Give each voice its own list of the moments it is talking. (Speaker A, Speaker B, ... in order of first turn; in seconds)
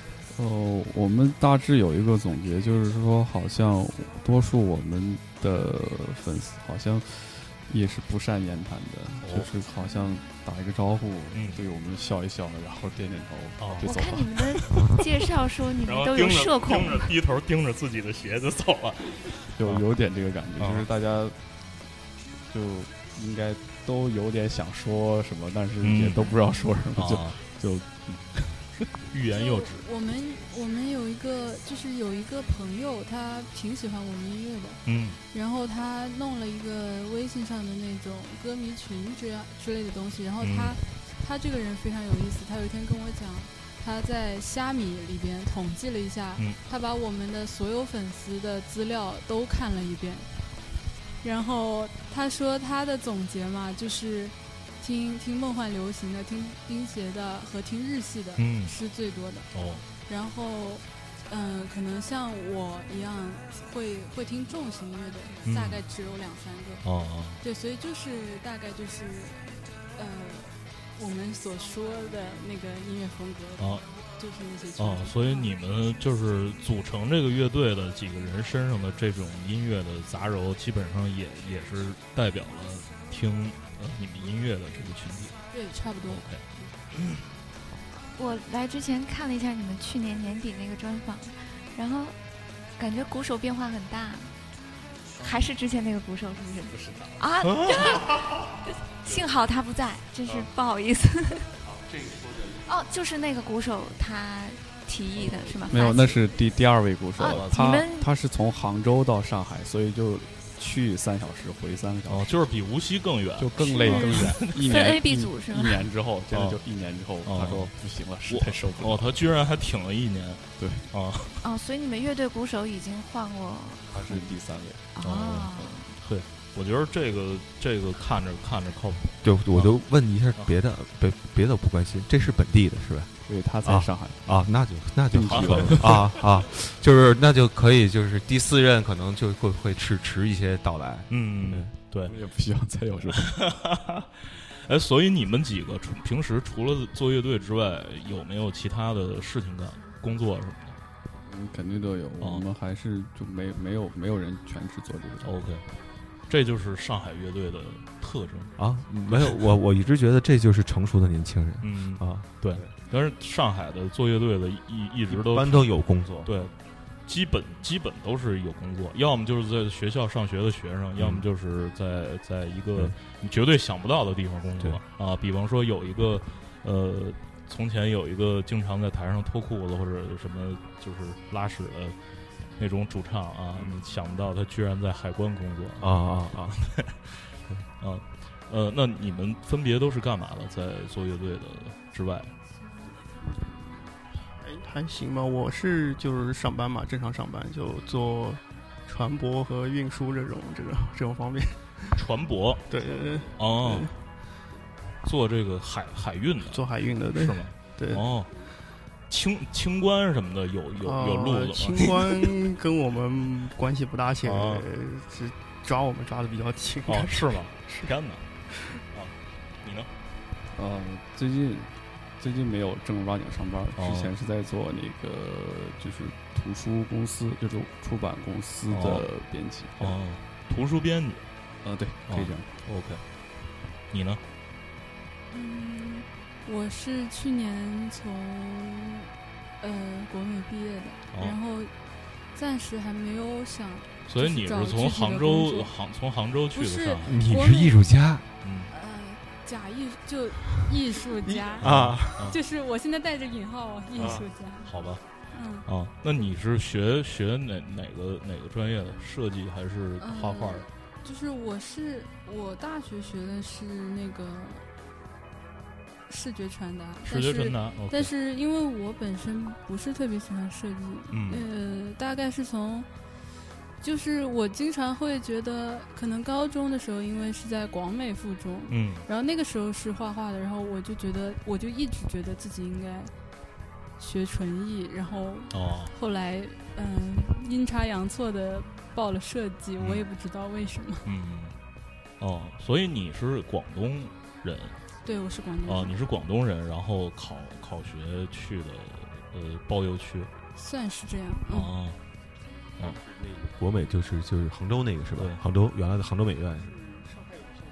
Speaker A: 0.3-14.4, 19.6-21.4, 22.5-28.6, 105.7-112.3, 113.4-119.2, 120.6-120.9, 123.9-124.9, 133.2-134.2, 135.1-136.1, 142.0-143.3, 151.2-155.3, 220.5-229.9, 231.6-232.5
Speaker B: 9.2-9.5, 11.3-11.6, 13.6-13.9, 15.8-19.8, 20.6-20.9, 25.8-26.4, 26.9-27.4, 29.1-29.9, 34.9-35.2, 40.4-40.8, 58.4-58.7, 59.5-59.8, 65.4-65.8, 66.8-67.4, 73.6-73.8, 74.8-85.3, 86.1-87.2, 97.4-98.0, 107.2-107.7, 112.1-114.8, 116.3-116.6, 117.2-117.7, 118.3-121.4, 125.0-129.8, 135.3-136.1, 141.1-142.1, 143.1-150.8, 155.2-155.6, 156.3-158.5, 159.1-159.3, 161.6-165.7, 166.2-166.5, 167.1-181.9, 182.6-186.9, 187.8-192.3, 201.9-202.6, 203.4-203.9, 205.0-208.3, 209.1-212.3, 214.2-214.7, 216.9-218.2, 218.9-219.9, 223.8-224.1, 228.7-229.1, 229.8-231.2, 232.1-233.0, 233.9-234.2, 241.1-241.4, 244.1-247.2, 248.4-248.7, 251.6-252.4, 254.0-255.0, 255.7-260.7, 267.0-268.1, 271.1-271.5, 278.7-279.1, 285.5-285.9, 291.0-291.6, 292.2-294.8, 295.6-300.3, 301.5-302.0, 305.1-305.4
Speaker C: 13.8-17.1, 88.2-92.2, 92.8-94.3, 95.2-101.5, 102.6-106.2, 107.2-108.1, 114.5-115.8, 121.4-124.2, 124.9-126.0
Speaker D: 29.3-34.8, 35.3-50.3, 51.2-59.5, 60.1-66.8, 67.4-75.5, 85.5-86.7, 235.3-239.1, 239.6-241.7, 242.3-245.7, 246.5-247.8, 248.7-251.7, 252.2-254.7, 255.3-255.7, 260.0-264.6, 266.1-272.9, 273.8-283.1, 284.0-291.1, 295.0-295.9, 300.6-301.7
Speaker E: 101.8-102.5, 129.2-133.1, 133.6-141.7, 158.6-162.7, 165.1-166.3, 171.0-171.2, 183.5-183.8, 185.8-186.6, 247.1-248.2, 251.6-252.3, 253.9-254.2, 302.8-306.8
Speaker F: 193.3-193.8, 194.4-202.0, 202.7-203.9, 206.4-208.1, 210.8-217.9